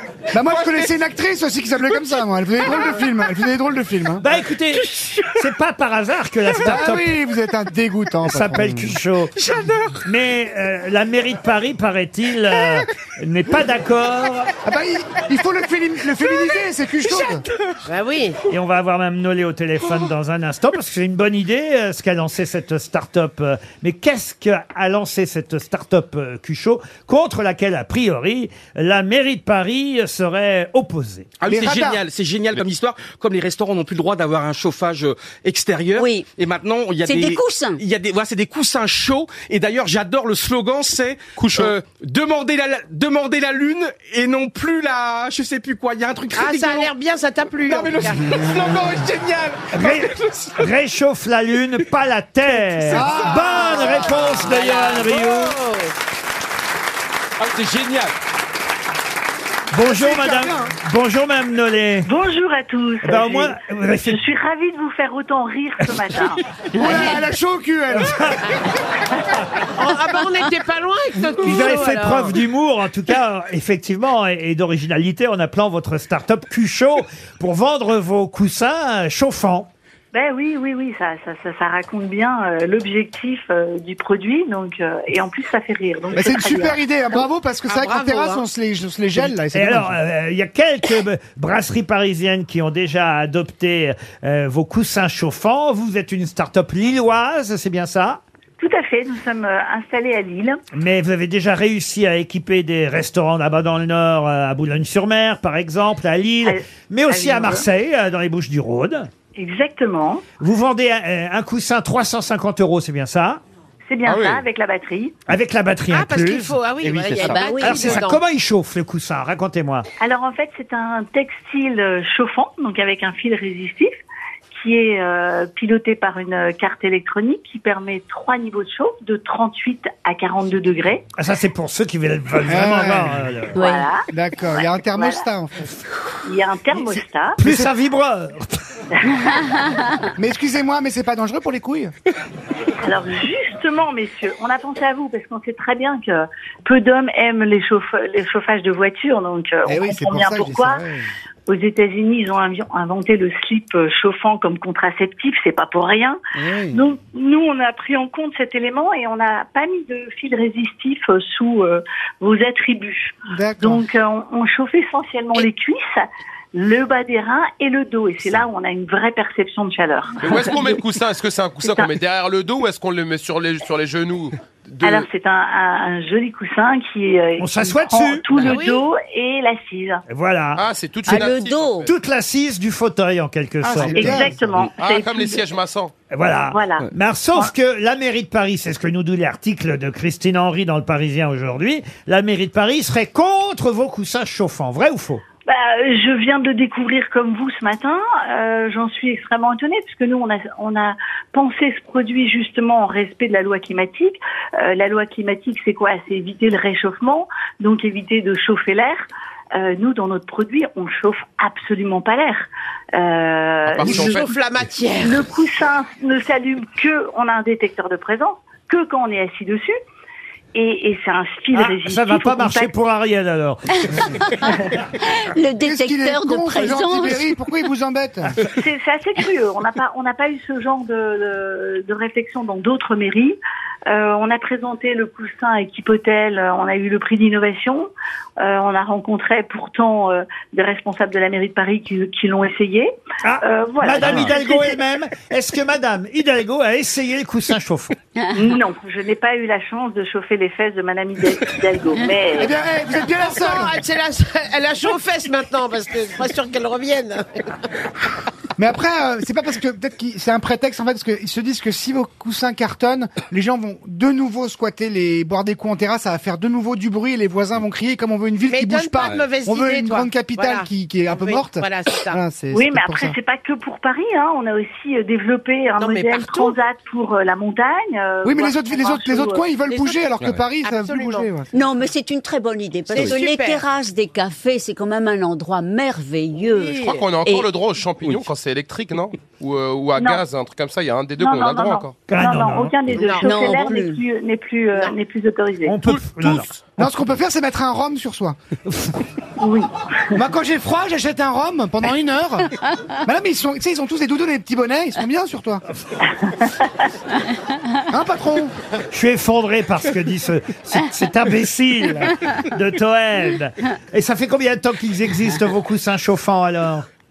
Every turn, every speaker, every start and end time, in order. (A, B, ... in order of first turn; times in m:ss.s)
0:00.3-0:04.2 A
0:04.2-0:07.1 B
0:06.5-0:09.0 A
0:08.2-0:09.3 B
0:09.4-0:09.7 C
0:10.0-0:14.5 B
0:14.6-0:17.4 A
0:17.8-0:18.4 C
0:18.5-0:31.3 B
0:31.4-0:46.9 D
0:31.4-0:32.0 A
0:36.0-0:36.3 E
0:37.0-0:37.8 E
0:41.4-0:41.7 F
0:46.3-0:48.4 C
0:47.6-0:50.7 D
0:49.7-0:55.6 B
0:52.8-0:54.1 A
0:53.0-0:55.9 C
0:57.7-0:58.1 D
0:59.7-1:02.1 B
0:59.8-1:00.7 A
1:02.0-1:06.4 G
1:03.0-1:04.2 B
1:06.7-1:08.4 A
1:06.8-1:07.2 C
1:07.9-1:08.6 B
1:09.6-1:12.3 C
1:11.4-1:19.7 B
1:20.1-1:27.2 G
1:26.1-1:30.0 A
1:27.7-1:28.4 C
1:29.2-1:38.2 B
1:38.6-1:40.6 G
1:40.7-1:49.1 B
1:46.4-1:47.6 G
1:49.4-1:50.2 G
1:50.4-1:53.4 B
1:53.9-1:55.2 G
1:54.0-1:54.4 F
1:55.3-1:56.6 B
1:55.9-1:58.2 C
1:56.8-1:57.5 D
1:57.2-1:57.7 E
1:57.6-1:59.8 B
2:00.0-2:03.9 G
2:04.5-2:11.0 G
2:11.2-2:13.6 B
2:12.5-2:13.2 A
2:13.5-2:15.2 G
2:13.6-2:13.8 E
2:14.1-2:15.7 A
2:16.2-2:17.4 G
2:16.9-2:17.7 A
2:17.4-2:18.6 B
2:20.1-2:21.9 A
2:22.8-2:30.8 G
2:29.6-2:31.1 A
2:31.5-2:36.2 G
2:36.4-2:36.8 A
2:36.7-2:50.7 G
2:43.3-2:43.8 A
2:50.2-2:55.1 F
2:51.6-2:51.9 G
2:54.8-3:00.0 G
2:57.4-2:58.2 B
2:58.4-2:58.8 C
3:00.1-3:00.6 B
3:00.6-3:01.9 F
3:01.0-3:01.9 E
3:01.8-3:04.2 B
3:03.6-3:04.4 A
3:03.8-3:05.5 G
3:04.8-3:05.9 F
3:06.1-3:15.2 B
3:06.5-3:07.5 G
3:15.4-3:29.0 G
3:29.6-3:34.2 G
3:33.6-3:34.3 F
3:33.8-3:35.2 C
3:35.0-3:39.7 G
3:40.5-3:42.7 G
3:41.5-3:44.5 B
3:45.0-3:47.2 E
3:45.6-3:48.4 A
3:48.4-3:53.4 G
3:53.9-3:57.9 G
3:58.4-4:02.9 G
4:03.2-4:07.9 B
4:03.4-4:04.8 G
4:08.3-4:12.5 G
4:12.4-4:13.8 A
4:13.2-4:17.6 C
4:18.6-4:33.1 A
4:28.5-4:32.2 C
4:32.5-4:39.4 G
4:35.8-4:36.6 C
4:38.2-4:41.5 A
4:39.7-4:40.1 C
4:40.6-4:41.3 C
4:41.5-4:46.7 E
4:42.9-4:43.6 C
4:46.5-4:47.2 C
4:46.8-4:52.0 F
4:50.0-4:50.2 G
4:51.2-4:55.7 G
4:52.1-4:52.7 B
4:52.9-4:53.8 C
4:53.2-4:54.0 E
4:55.6-4:56.5 B
4:55.8-4:56.6 F
4:56.8-4:58.4 A
4:59.4-5:00.2 G
5:00.1-5:05.6 A
5:06.3-5:06.5 G
5:07.9-5:08.5 A
5:08.9-5:16.8 B